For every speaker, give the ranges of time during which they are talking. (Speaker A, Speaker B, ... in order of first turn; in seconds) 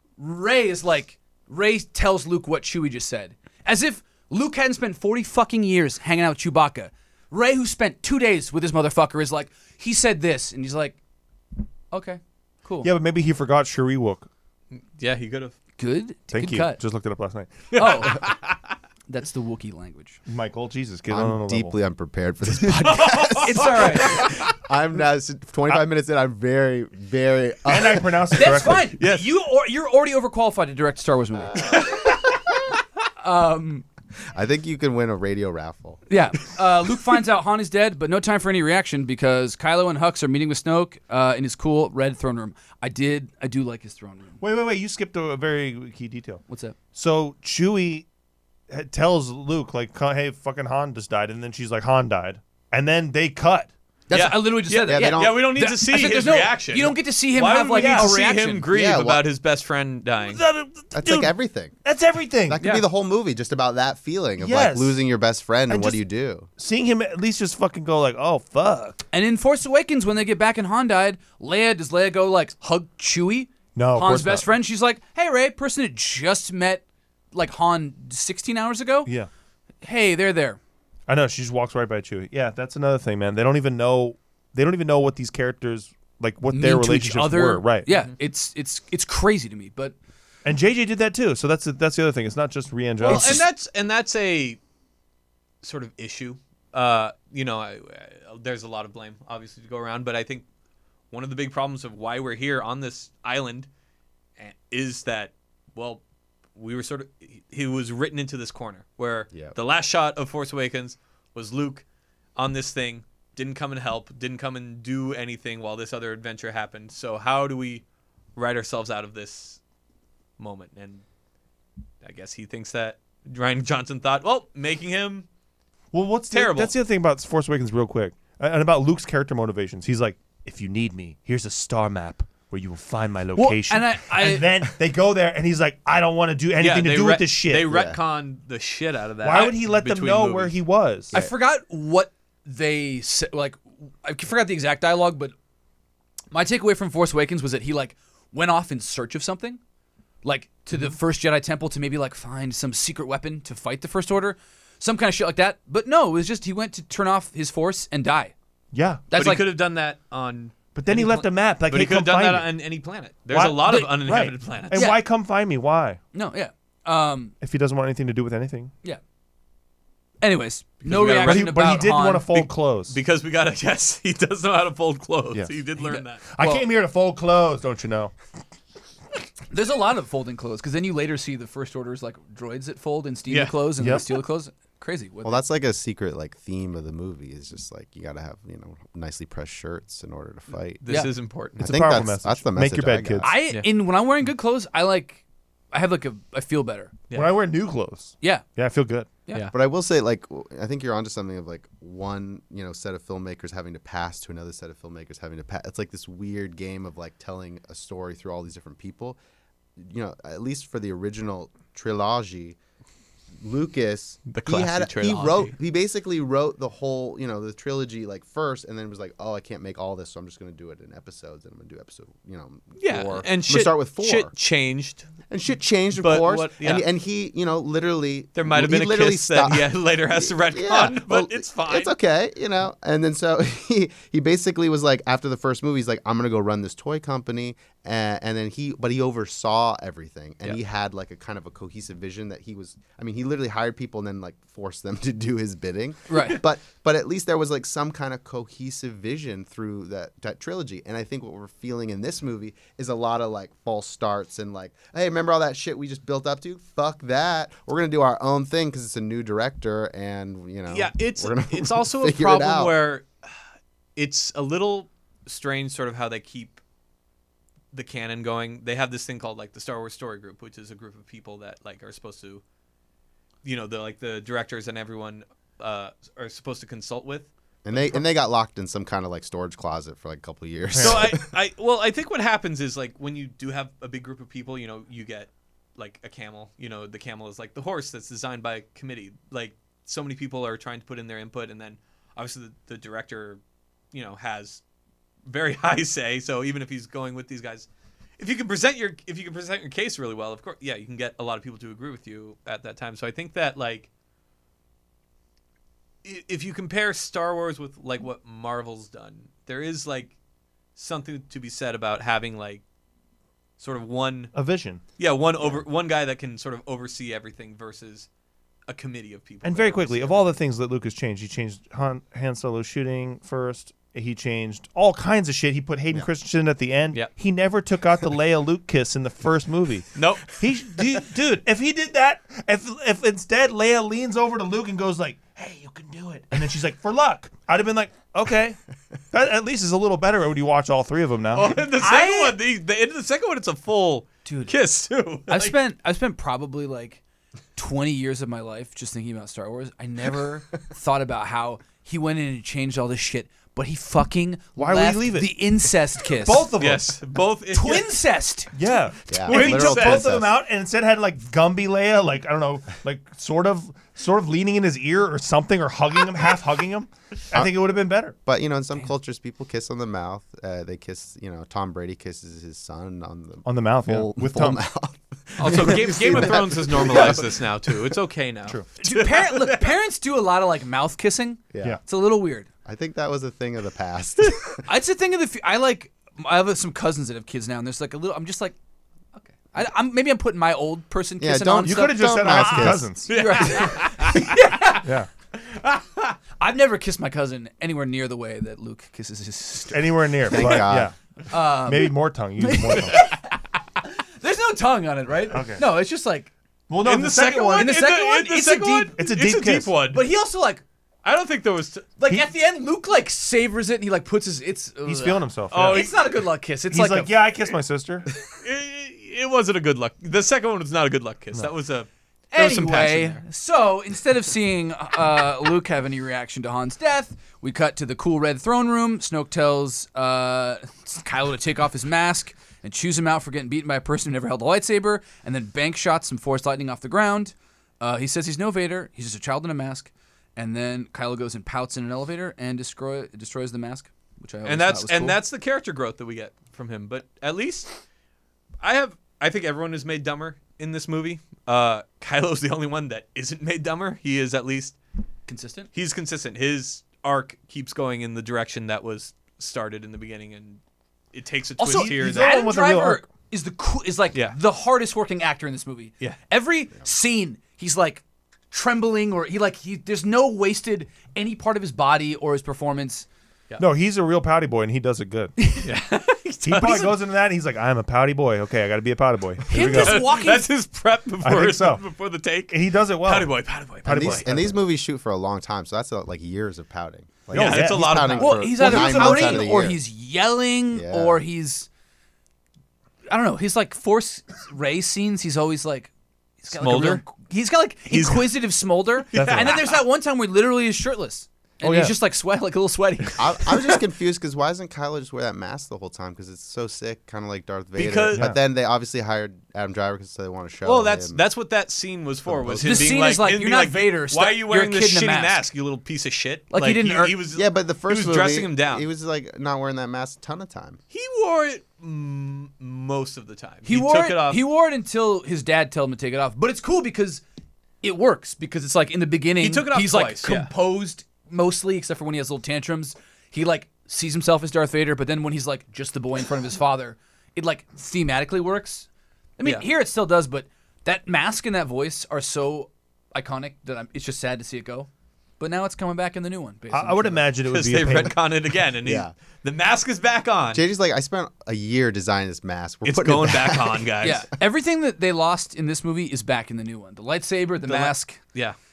Speaker A: 0.2-11.0, 11.9-12.9, 15.8-16.8, 17.8-18.3, 19.1-20.2, 23.4-24.3, 28.3-32.0, 33.2-33.9, 36.1-44.4, 46.5-46.8, 54.1-58.7, 69.1-79.1, 79.8-80.6, 86.5-90.0, 93.0-93.4, 133.4-134.5, 141.1-145.3, 146.3-149.6, 150.2-158.3, 159.1-159.5, 164.7-165.0, 166.1-167.3, 170.2-172.3, 175.9-176.7, 179.5-185.4, 190.9-191.1, 193.2-196.9, 199.3-199.5, 246.1-246.4, 341.8-342.4, 344.2-344.5, 345.3-347.0, 347.6-356.5, 357.5-358.5, 378.8-382.5, 384.6-388.6, 389.4-394.9, 396.4-400.6, 401.3-406.3, 407.6-408.9, 409.9-410.6, 412.0-417.1, 422.3-445.2, 455.3-455.7, 461.6-473.1, 475.4-475.7, 479.5-480.5, 488.2-491.7, 493.1-495.9, 496.4-503.6, 512.6-515.4, 516.5-517.2, 523.7-527.2, 527.8-538.9, 539.4-547.3, 554.0-558.2
Speaker B: 12.8-14.3, 16.3-17.7, 20.3-21.8, 27.7-28.9, 44.4-46.4, 46.9-48.1, 48.7-53.7, 57.8-58.1, 60.2-61.3, 61.8-62.6, 64.4-65.0, 65.7-66.0, 66.6-69.0, 73.8-74.5, 81.1-87.9, 90.5-93.5, 125.9-137.7, 139.2-141.1, 158.7-159.1, 160.8-162.5, 163.3-166.0, 167.4-168.7, 171.2-173.0, 176.2-178.1, 183.8-184.1, 191.6-193.3, 197.1-199.1, 280.7-281.1, 314.3-314.8, 319.4-341.6, 354.6-355.4, 356.2-356.9, 358.5-368.1, 373.4-374.6, 391.6-393.1, 394.8-395.1, 399.7-403.1, 405.3-405.6, 406.7-407.7, 409.0-409.7, 414.9-415.9, 416.7-418.1, 461.7-463.0, 473.6-475.4, 476.4-480.1, 481.2-481.8, 482.5-484.6, 487.3-489.5, 499.1-499.6, 501.6-501.9, 546.7-548.2
Speaker C: 14.8-15.6, 17.7-18.6, 22.7-24.3, 29.0-29.3, 54.1-60.4, 93.0-94.6, 95.6-100.5, 101.1-103.7, 104.4-106.0, 106.6-111.8, 112.4-117.8, 118.4-119.6, 120.4-121.0, 122.0-125.3, 126.3-126.7, 136.6-140.5, 159.2-164.8, 170.8-171.8, 172.3-176.3, 183.3-183.6, 190.8-191.7, 197.1-197.3, 214.3-215.5, 222.8-225.1, 226.0-226.8, 228.4-231.9, 260.7-263.1, 264.0-266.6, 267.7-272.4, 273.4-278.0, 280.8-293.4, 293.9-294.6, 295.3-297.7, 298.2-303.9, 306.0-310.1, 310.8-312.6, 313.6-314.3, 315.0-318.1, 318.7-320.4, 330.0-330.3, 341.3-345.6, 356.6-357.9, 359.3-360.1, 375.4-379.8, 393.1-394.4, 395.4-396.1, 406.8-410.0, 411.0-411.9, 415.5-416.2, 418.2-423.2, 444.4-447.7, 448.6-454.8, 455.7-460.6, 461.1-462.4, 475.6-477.0, 479.5-484.3, 487.3-488.5, 496.5-497.1, 497.9-498.3, 499.1-499.8, 507.8-508.3, 510.6-518.9, 520.9-524.4, 529.4-530.5, 547.5-550.6, 552.8-554.3, 557.6-558.6
Speaker D: 21.1-28.4, 34.3-36.0, 54.8-55.4, 58.7-59.2, 60.9-61.8, 62.5-66.5, 137.7-138.0, 185.2-190.8, 191.6-193.3, 199.5-209.2, 209.8-212.6, 213.4-224.3, 225.3-262.8, 277.6-281.3, 359.1-360.3, 368.3-377.4, 381.5-381.8, 382.6-384.6, 391.2-392.9, 400.3-400.9, 483.9-489.8, 490.7-491.2, 503.2-511.2, 512.3-513.0, 517.4-520.8, 548.8-549.1, 550.5-553.9